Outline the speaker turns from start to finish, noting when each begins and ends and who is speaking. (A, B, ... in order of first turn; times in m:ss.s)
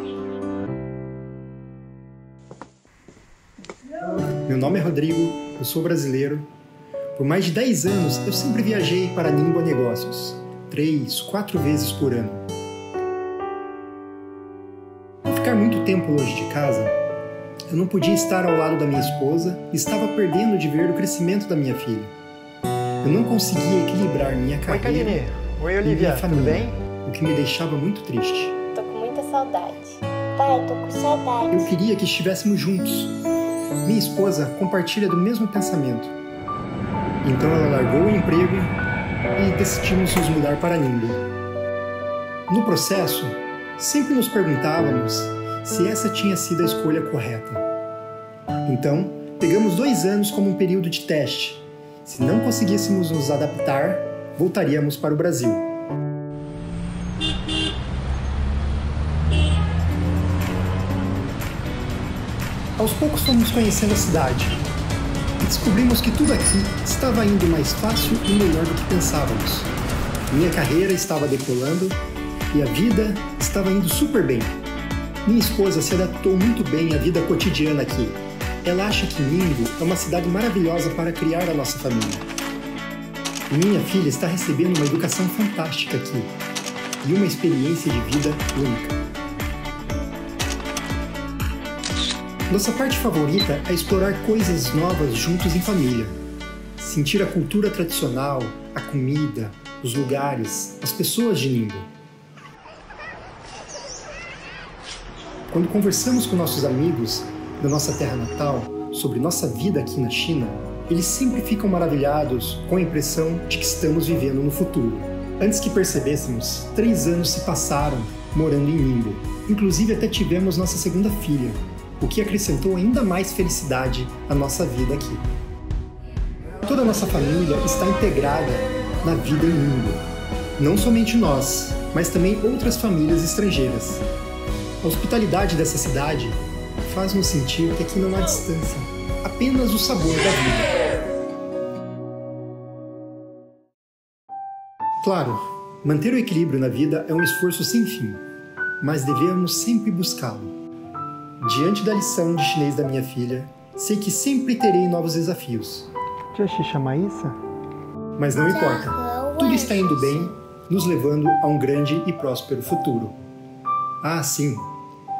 0:04.4-0:06.5 A
0:07.2-0:12.4 A
0:15.2-0:16.9 A
0:17.7-0:22.1 A
0:23.0-0:25.2 A
0:24.7-0:26.7 B
0:25.8-0:28.6 A
0:28.7-0:31.7 C
0:31.5-0:33.1 A
0:33.8-0:36.1 A
0:37.2-0:38.7 A
0:39.4-0:41.2 A
0:42.5-0:47.6 A
0:48.6-0:55.6 A
1:02.8-1:04.6 A
1:05.4-1:09.7 A
1:10.3-1:12.0 A
1:12.5-1:14.6 A
1:15.2-1:22.2 A
1:23.5-1:26.3 A
1:27.0-1:29.0 A
1:32.5-1:36.1 A
1:36.8-1:41.9 A
1:45.5-2:05.2 A
2:06.6-2:10.0 A
2:10.6-2:14.1 A
2:14.8-2:20.7 A
2:25.0-2:28.2 A
2:28.8-2:30.5 A
2:31.4-2:37.4 A
2:38.2-2:43.2 A
2:38.4-2:40.4 C
2:44.0-2:44.7 A